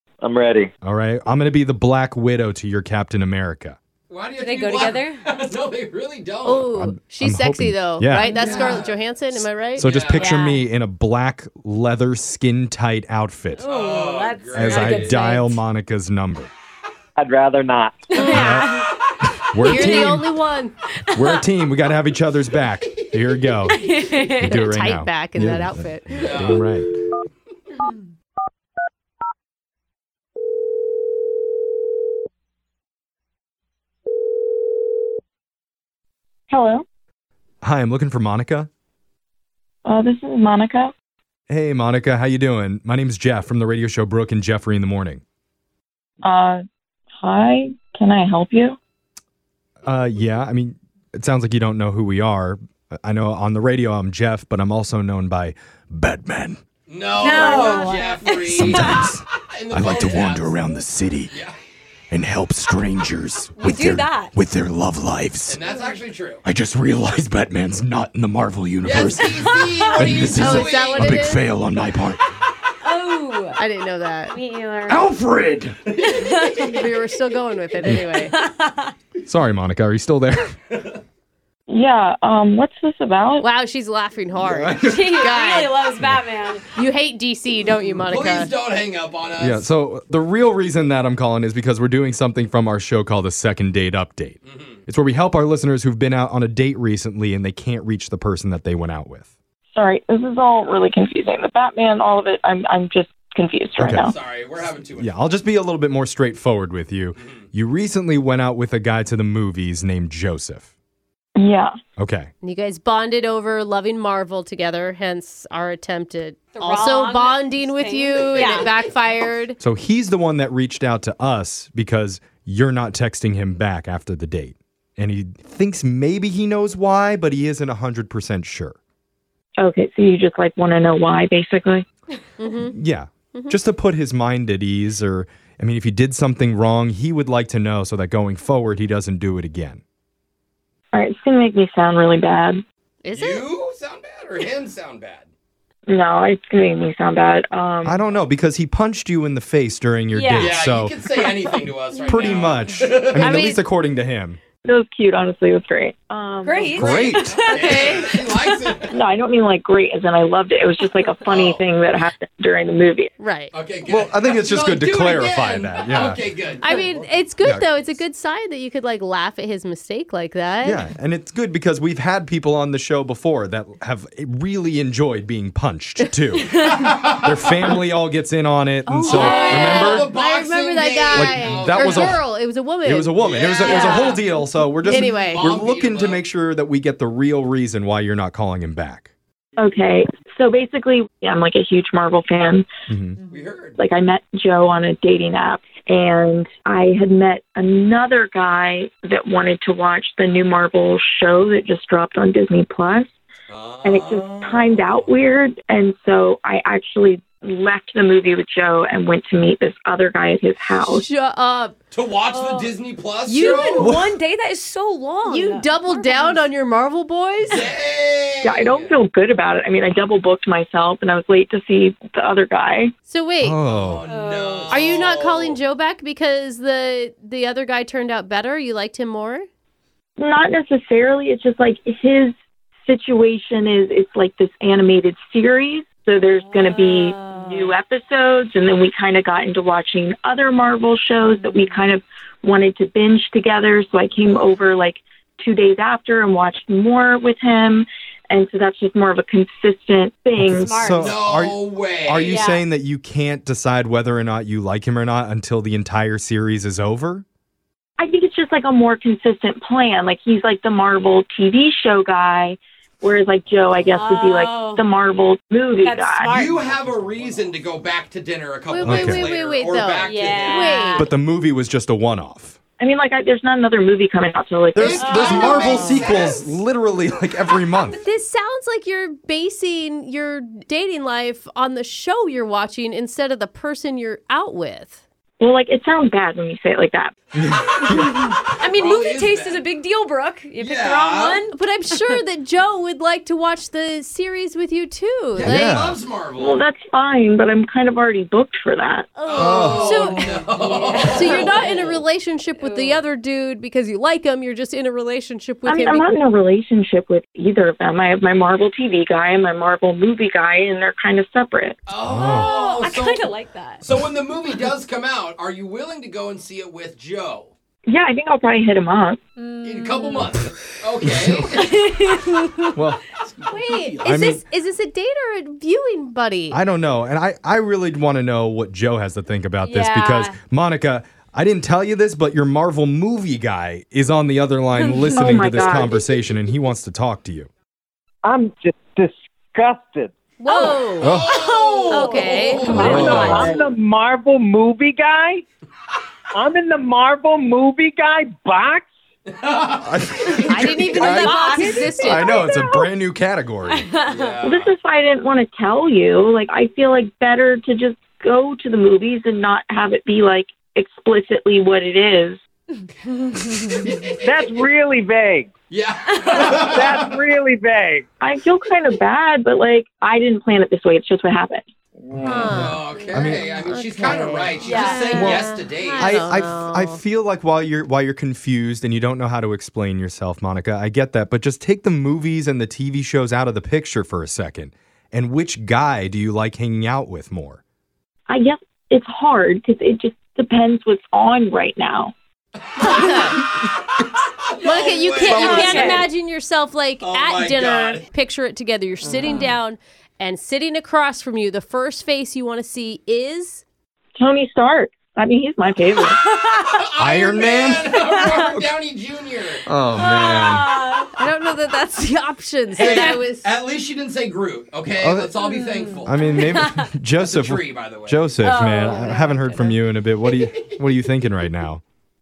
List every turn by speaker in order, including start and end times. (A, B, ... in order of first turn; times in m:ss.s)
0:00.2-0:00.7 A
0:00.8-0:03.8 B
0:04.1-0:06.7 C
0:04.4-0:05.3 D
0:06.4-0:09.9 E
0:06.8-0:08.4 B
0:08.2-0:08.6 D
0:08.4-0:08.9 C
0:09.3-0:13.7 B
0:09.8-0:10.4 C
0:10.1-0:10.6 D
0:13.6-0:15.6 D
0:13.7-0:15.2 C
0:14.5-0:16.5 B
0:17.2-0:18.1 A
0:18.1-0:18.9 D
0:18.1-0:18.7 E
0:18.3-0:20.3 B
0:19.6-0:20.7 E
0:21.1-0:21.4 D
0:21.2-0:26.9 B
0:23.7-0:24.6 D
0:24.5-0:26.3 E
0:26.1-0:26.7 C
0:36.5-0:36.8 F
0:37.6-0:38.7 B
0:39.8-0:40.9 F
0:41.5-0:45.2 B
0:46.2-0:46.6 F
0:47.2-0:48.8 F
0:49.8-0:56.6 B
0:56.9-1:00.6 C
0:57.2-0:58.9 D
0:58.4-1:01.3 B
1:01.3-1:01.6 C
1:02.1-1:05.6 B
1:03.6-1:04.3 D
1:05.5-1:06.4 C
1:06.4-1:12.2 B
1:08.8-1:11.2 C
1:10.4-1:11.4 E
1:12.8-1:13.6 D
1:13.6-1:14.4 E
1:14.3-1:15.0 D
1:14.9-1:15.8 B
1:15.9-1:16.2 C
1:16.2-1:16.7 D
1:16.6-1:18.3 E
1:18.3-1:18.9 D
1:19.2-1:20.6 B
1:21.7-1:23.5 F
1:23.4-1:25.8 E
1:24.4-1:25.1 B
1:24.9-1:26.7 D
1:26.8-1:28.5 E
1:28.1-1:29.7 C
1:29.4-1:39.3 B
1:34.4-1:34.8 C
1:39.7-1:44.2 F
1:43.8-1:50.7 B
1:44.1-1:45.1 C
1:47.2-1:47.4 C
1:51.4-1:51.7 F
1:52.0-1:52.3 B
1:52.4-1:59.6 E
1:56.5-1:58.7 D
1:59.6-2:08.8 B
2:09.6-2:11.9 F
2:12.4-2:12.8 E
2:12.7-2:19.8 B
2:20.9-2:22.6 F
2:23.0-2:23.4 E
2:23.1-2:25.3 C
2:25.9-2:28.0 F
2:27.8-2:31.0 B
2:30.1-2:30.5 D
2:30.4-2:33.4 C
2:32.1-2:34.4 B
2:33.2-2:33.6 E
2:34.6-2:37.3 F
2:36.4-2:38.6 D
2:36.7-2:37.4 B
2:36.8-2:38.9 C
2:37.5-2:38.0 E
2:38.9-2:43.1 F
2:41.3-2:41.6 C
2:43.2-2:43.5 E
2:43.5-2:47.0 C
2:43.9-2:46.2 B
2:46.6-2:50.8 E
2:47.4-2:47.7 B
2:50.6-3:00.1 B
2:56.6-2:57.4 C
2:58.9-3:04.2 E
2:59.1-3:02.2 C
2:59.3-2:59.7 D
3:01.1-3:02.2 B
3:02.8-3:09.1 B
3:03.2-3:04.0 C
3:03.7-3:04.1 F
3:04.9-3:05.5 E
3:04.9-3:06.2 C
3:09.6-3:12.7 F
3:12.9-3:13.2 B
3:13.3-3:13.8 C
3:13.8-3:23.1 F
3:23.5-3:25.1 C
3:23.8-3:31.1 F
3:30.8-3:31.8 E
3:31.9-3:33.9 C
3:32.3-3:32.7 D
3:33.3-3:33.7 E
3:33.3-3:36.5 D
3:33.8-3:34.1 B
3:35.2-3:37.7 E
3:37.4-3:39.0 C
3:38.4-3:42.9 F
3:43.1-3:43.6 E
3:43.4-3:44.1 B
3:43.7-3:45.6 C
3:44.1-3:44.7 D
3:44.7-3:49.4 E
3:50.2-4:10.7 F
3:56.3-3:57.8 D
4:01.3-4:01.8 D
4:10.4-4:17.2 B
4:10.5-4:11.1 D
4:11.0-4:12.3 C
4:12.3-4:12.6 D
4:18.0-4:26.3 F
4:23.8-4:24.8 D
4:25.8-4:26.5 D
4:26.3-4:30.8 C
4:26.4-4:27.5 B
4:28.7-4:31.1 E
4:28.8-4:29.3 B
4:30.1-4:31.1 D
4:30.9-4:32.6 B
4:32.8-4:35.8 F
4:34.8-4:38.0 B
4:34.8-4:36.6 C
4:34.9-4:35.5 D
4:35.6-4:36.0 E
4:38.0-4:45.0 E
4:45.4-4:47.1 F
4:47.4-4:48.2 B
4:47.9-4:52.2 D
4:48.7-4:49.6 C
4:50.6-4:51.4 C
4:51.5-4:55.8 E
4:55.4-4:56.6 C
4:55.4-4:56.0 B
4:56.4-4:59.1 F
4:59.2-5:01.9 D
4:59.3-5:02.0 C
4:59.4-4:59.9 B
4:59.4-5:00.4 E
5:01.0-5:06.1 E
5:02.6-5:03.0 D
5:05.7-5:11.8 F
5:11.9-5:13.3 C
5:12.0-5:12.5 B
5:12.2-5:13.8 D
5:13.8-5:17.5 C
5:17.9-5:19.2 F
5:19.4-5:20.3 D
5:19.6-5:21.8 C
5:21.0-5:21.5 B
5:21.7-5:22.7 D
5:22.8-5:23.0 B
5:23.5-5:26.6 E
5:24.0-5:24.4 B
5:26.5-5:37.5 B
5:29.6-5:30.4 D
5:34.8-5:35.3 D
5:35.1-5:36.0 F
5:38.2-5:40.1 A
5:40.4-5:41.1 E
5:40.5-5:42.7 D
5:41.0-5:43.7 C
5:41.0-5:41.3 B
5:41.9-5:43.3 E
5:42.1-5:45.4 A
5:42.6-5:43.5 B
5:46.3-5:48.9 A
5:49.3-5:50.6 C
5:49.8-5:53.9 B
5:50.5-5:52.9 E
5:51.0-5:52.4 D
5:51.6-5:51.8 A
5:53.7-5:54.4 D
5:54.1-5:54.7 C
5:54.4-6:02.4 F
6:04.2-6:05.5 A
6:05.7-6:07.2 C
6:06.3-6:08.1 A
6:08.2-6:11.6 F
6:12.0-6:12.7 A
6:12.2-6:17.0 E
6:12.5-6:16.1 C
6:13.1-6:14.5 B
6:14.6-6:15.1 D
6:15.1-6:27.6 B
6:28.3-6:32.1 F
6:32.8-6:33.4 E
6:32.8-6:33.5 C
6:34.4-6:36.0 C
6:34.6-6:43.6 E
6:35.3-6:36.0 B
6:35.5-6:36.0 D
6:37.0-6:38.0 C
6:44.2-6:46.2 F
6:46.3-6:46.6 D
6:46.7-6:49.7 C
6:47.0-6:48.0 B
6:49.7-6:50.7 B
6:50.0-6:51.1 D
6:51.2-6:53.5 E
6:52.8-6:56.5 C
6:52.8-6:53.2 D
6:55.0-6:55.4 B
6:55.5-6:56.8 D
6:56.0-7:01.8 B
6:57.2-6:58.6 C
6:58.4-6:59.8 D